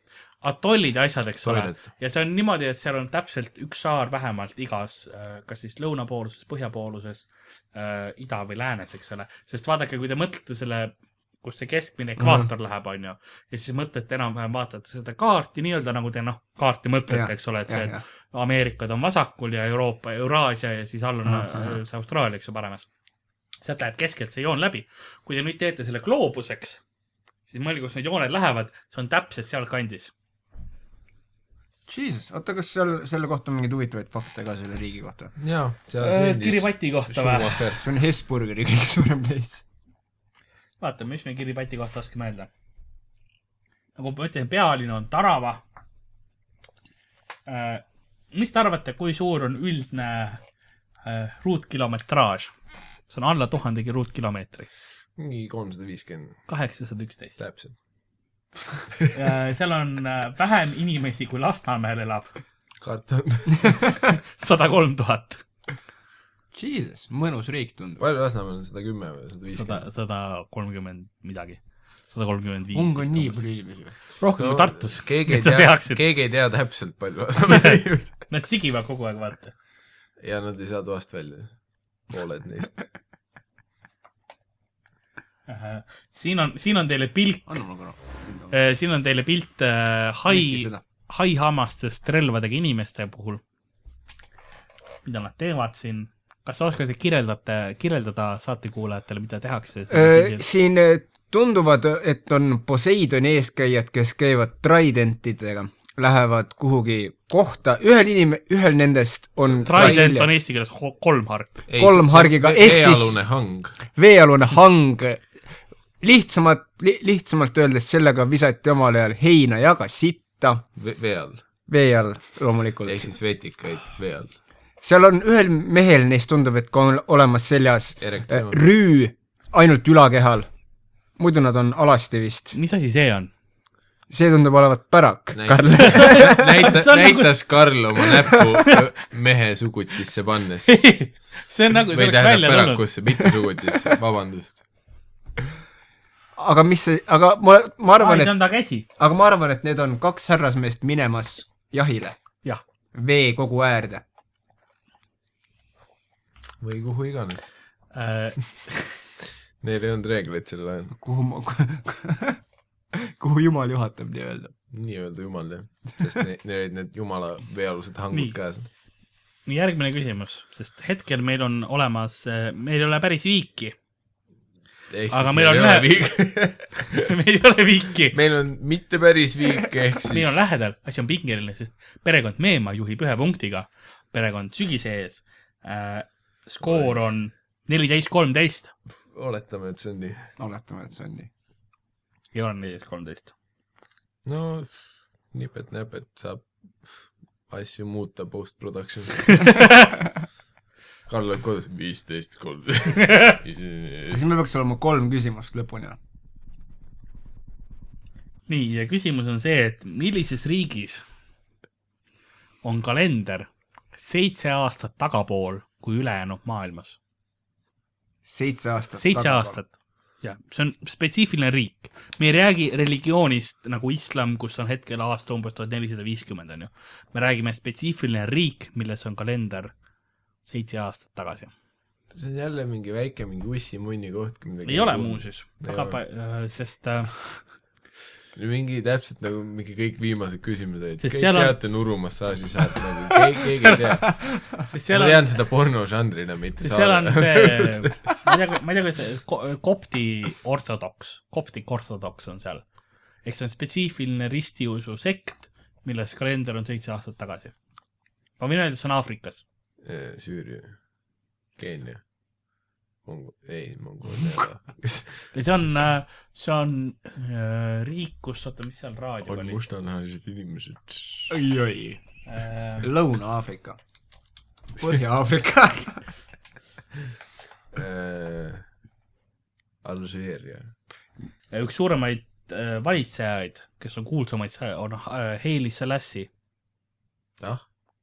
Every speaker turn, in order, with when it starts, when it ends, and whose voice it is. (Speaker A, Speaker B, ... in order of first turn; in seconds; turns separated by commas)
Speaker A: 0.4-22.9, Speaker B: 1.4-1.9, Speaker C: 12.2-12.5, Speaker C: 17.1-18.0, Speaker C: 21.2-21.8, Speaker A: 23.6-26.8, Speaker A: 27.5-30.1, Speaker C: 31.9-35.3, Speaker B: 35.4-37.9, Speaker A: 36.0-37.7, Speaker C: 37.8-39.6, Speaker A: 40.8-42.5, Speaker A: 44.0-45.6, Speaker A: 47.5-50.4, Speaker A: 51.0-52.5, Speaker A: 53.1-54.7, Speaker B: 55.2-56.4, Speaker A: 56.5-57.4, Speaker B: 57.4-57.7, Speaker A: 59.1-62.3, Speaker B: 62.8-64.0, Speaker A: 64.0-65.4, Speaker C: 66.5-68.0, Speaker B: 68.0-69.9, Speaker A: 69.5-73.4, Speaker C: 72.7-74.0, Speaker A: 74.1-76.0, Speaker B: 74.4-78.2, Speaker A: 77.5-79.5, Speaker B: 80.2-81.5, Speaker B: 82.1-82.8, Speaker A: 85.5-87.6, Speaker C: 87.5-88.5, Speaker A: 88.5-93.4, Speaker C: 90.3-90.8, Speaker A: 95.0-100.4, Speaker C: 99.9-110.3, Speaker B: 109.6-110.0, Speaker A: 109.6-111.5, Speaker B: 111.7-113.7, Speaker C: 111.8-113.2, Speaker C: 113.9-115.3, Speaker C: 116.0-120.6, Speaker B: 120.8-121.4, Speaker C: 121.7-123.1, Speaker B: 122.8-124.3, Speaker C: 124.8-130.5, Speaker B: 128.0-128.6, Speaker C: 131.2-132.6, Speaker A: 132.5-133.3, Speaker C: 134.1-136.7, Speaker B: 135.3-140.8, Speaker A: 135.8-137.3, Speaker A: 140.7-142.9, Speaker B: 141.9-144.6, Speaker C: 146.3-148.3, Speaker A: 147.9-148.8, Speaker C: 149.0-152.2, Speaker C: 152.9-154.0, Speaker B: 156.6-157.5, Speaker A: 157.9-158.9, Speaker B: 159.6-160.9, Speaker C: 160.9-162.4, Speaker C: 162.9-164.5, Speaker B: 164.7-168.7, Speaker A: 169.4-173.7, Speaker B: 174.9-177.0, Speaker A: 175.1-175.9, Speaker A: 176.9-178.2, Speaker B: 178.1-180.5, Speaker A: 180.1-188.7, Speaker B: 186.6-187.0, Speaker B: 189.1-190.3, Speaker C: 190.4-191.3, Speaker A: 192.3-193.3, Speaker B: 194.2-194.8, Speaker B: 195.3-199.5, Speaker A: 199.4-199.8, Speaker B: 201.1-204.2, Speaker C: 204.1-206.0, Speaker A: 208.5-211.0, Speaker A: 212.6-217.0, Speaker C: 218.2-219.6, Speaker A: 219.0-229.7, Speaker A: 230.4-231.5, Speaker B: 232.1-236.0, Speaker A: 234.7-237.4, Speaker B: 238.3-248.0, Speaker A: 241.0-241.6, Speaker A: 243.6-245.3, Speaker A: 246.6-252.7, Speaker A: 253.2-257.5, Speaker A: 258.4-259.4, Speaker B: 259.8-260.8, Speaker B: 261.6-262.0, Speaker B: 263.0-265.3, Speaker A: 265.3-269.6, Speaker B: 269.2-271.4, Speaker C: 271.3-272.0, Speaker A: 272.2-272.9, Speaker C: 272.8-273.8, Speaker C: 274.8-276.1, Speaker B: 277.7-278.6, Speaker B: 279.8-280.7, Speaker A: 281.5-286.3, Speaker B: 287.4-287.6